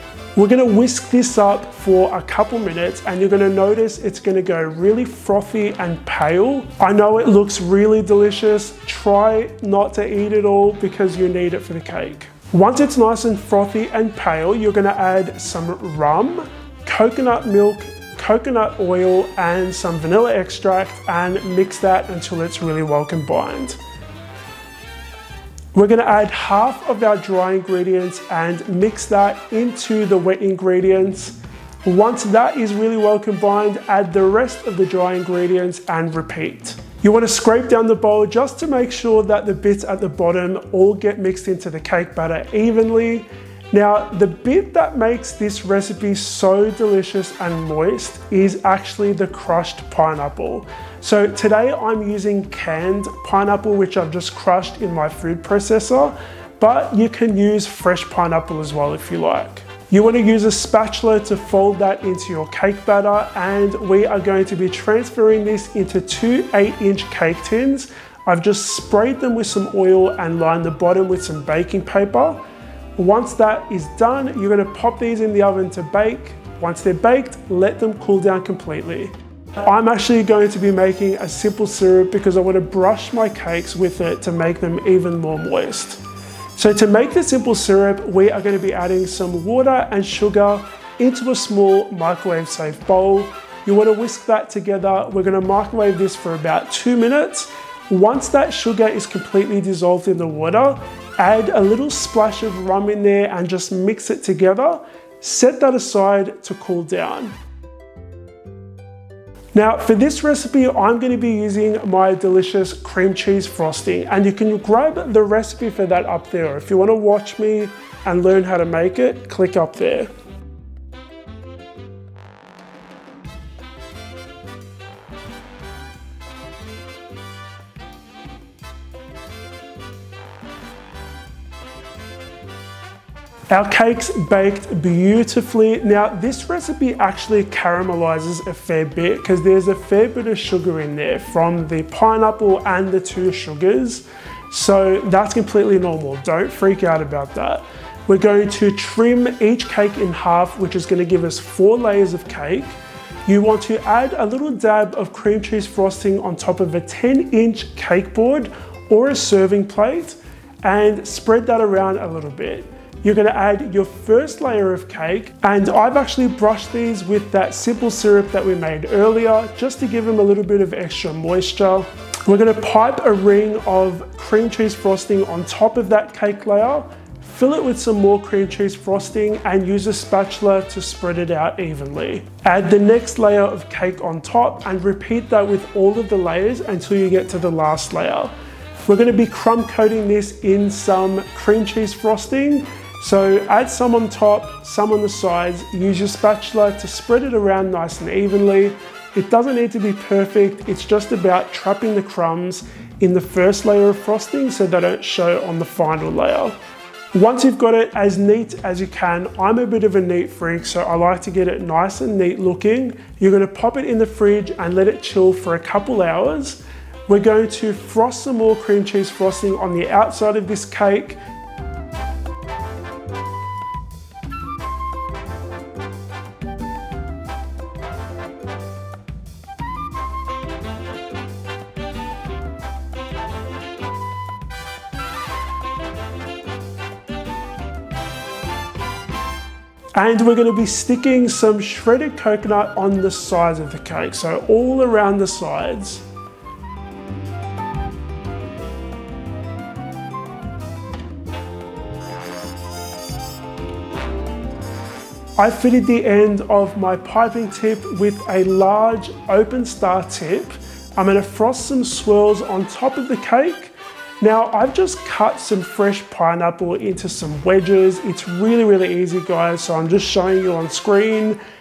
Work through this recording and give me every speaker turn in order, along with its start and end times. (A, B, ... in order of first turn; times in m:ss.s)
0:00.4-0:23.8 A
0:25.7-1:12.4 A
1:13.0-1:26.0 A
1:26.6-1:47.4 A
1:49.5-2:00.1 A
2:13.5-3:26.6 A
3:27.1-3:41.2 A
4:00.0-4:06.0 A
4:15.4-4:31.4 A